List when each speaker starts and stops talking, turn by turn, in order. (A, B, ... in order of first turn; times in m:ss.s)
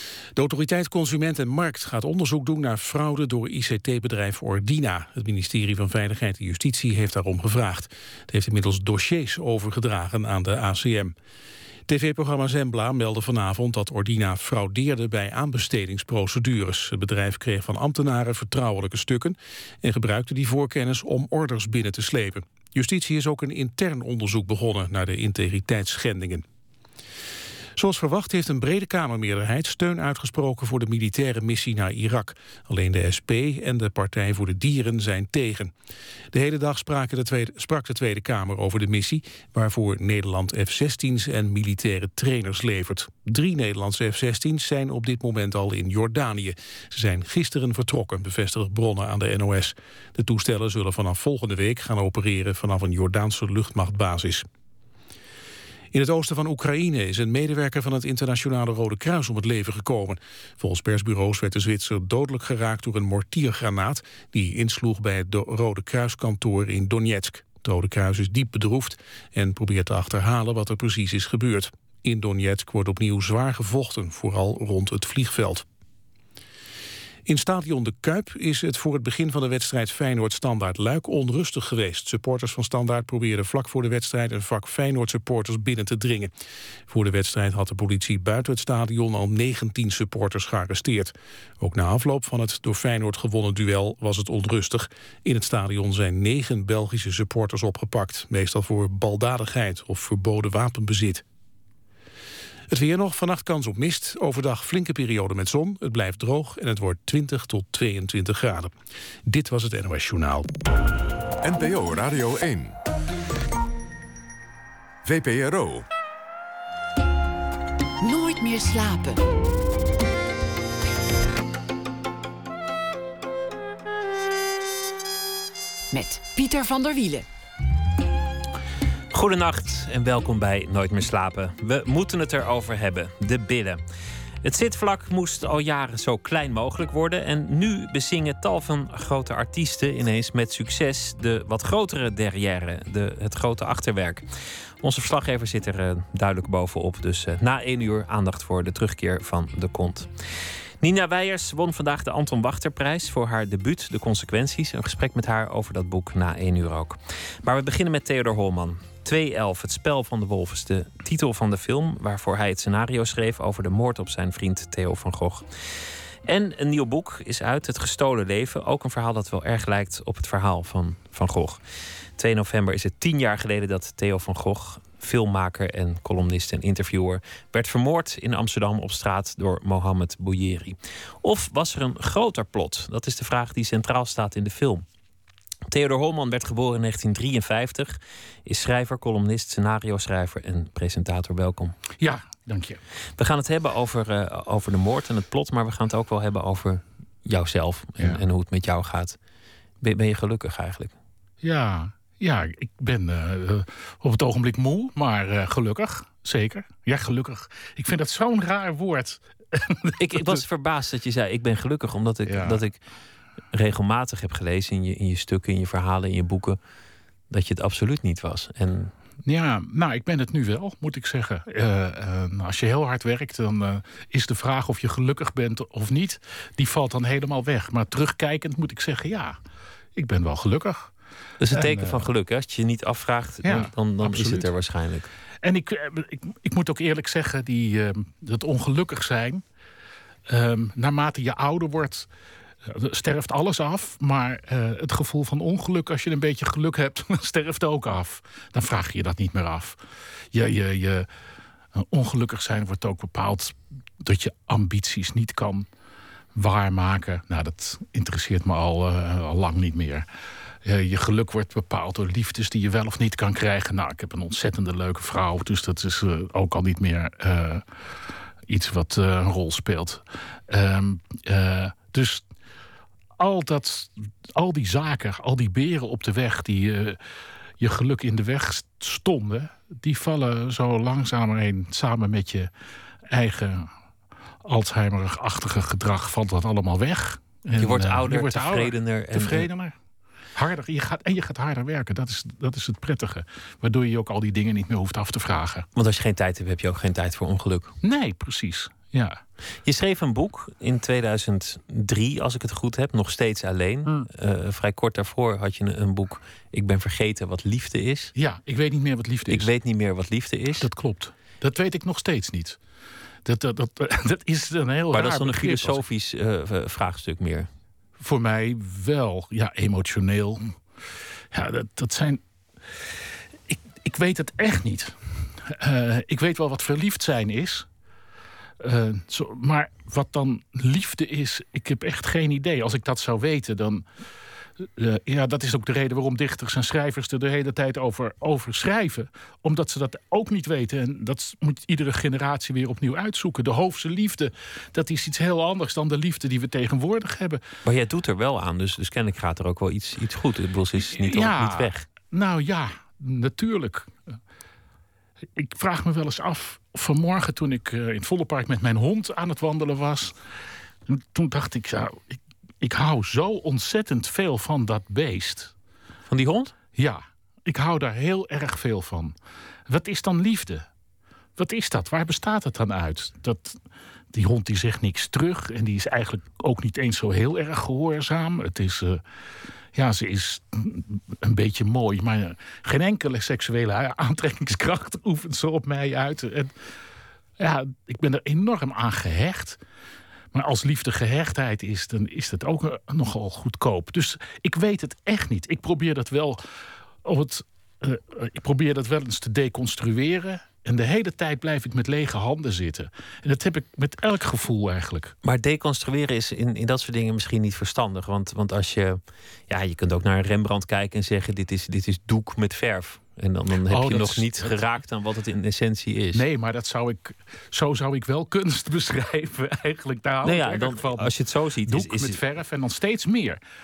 0:00.4-0:11.2 A
0:11.9-0:26.4 A
0:27.8-0:35.7 A
0:36.3-0:54.5 A
0:55.9-1:15.6 A
1:17.3-1:26.3 A
1:26.9-1:41.2 A
1:42.7-1:48.7 A
1:49.3-1:50.5 A
1:51.4-1:52.8 B
1:55.0-1:55.9 B
1:58.0-1:59.2 C
2:05.9-2:07.3 C
2:09.1-2:13.8 D
2:14.4-2:24.3 D
2:24.8-2:30.1 D
2:30.8-2:45.5 D
2:46.2-2:51.6 D
2:52.2-3:04.9 D
3:05.7-3:11.8 D
3:12.0-3:12.8 E
3:13.2-3:19.2 D
3:19.8-3:21.0 D
3:21.4-3:30.4 E
3:30.0-3:32.8 D
3:32.3-3:32.6 E
3:33.5-3:36.6 D
3:37.3-3:38.9 D
3:39.3-3:49.4 E
3:50.0-3:50.9 E
3:51.4-3:55.1 D
3:51.5-3:52.1 E
3:53.4-3:54.5 E
3:55.4-3:59.4 E
4:00.3-4:02.1 E
4:02.7-4:09.8 E
4:10.3-4:11.1 E
4:11.8-4:15.7 E
4:16.4-4:20.1 E
4:20.6-4:27.6 E
4:28.5-4:32.2 E
4:33.2-4:37.0 E
4:37.6-4:42.5 E
4:43.1-4:43.7 E
4:44.4-4:49.8 E
4:47.6-4:49.5 D
4:50.4-4:55.7 E
4:55.8-4:57.7 D
4:57.8-4:59.2 E
4:59.6-5:08.1 D
5:08.2-5:09.5 E
5:09.3-5:10.7 D
5:10.6-5:12.6 E
5:13.3-5:15.8 E
5:14.9-5:17.5 D
5:18.0-5:20.5 E
5:21.3-5:22.2 E
5:23.5-5:27.7 E
5:28.6-5:33.8 E
5:34.8-5:47.4 E
5:47.6-5:51.9 D
5:50.8-5:54.2 E
5:55.4-6:00.2 E
6:00.9-6:05.5 E
6:06.1-6:06.5 D
6:06.8-6:09.2 E
6:09.7-6:10.7 E
6:11.4-6:13.6 E
6:14.1-6:19.0 E
6:19.8-6:26.5 E
6:27.4-6:29.6 E
6:30.3-6:36.4 E
6:37.0-6:45.2 E
6:45.2-6:56.2 D
6:53.7-6:54.6 E
6:56.1-7:01.1 E
7:00.2-7:02.2 D
7:01.6-7:03.4 E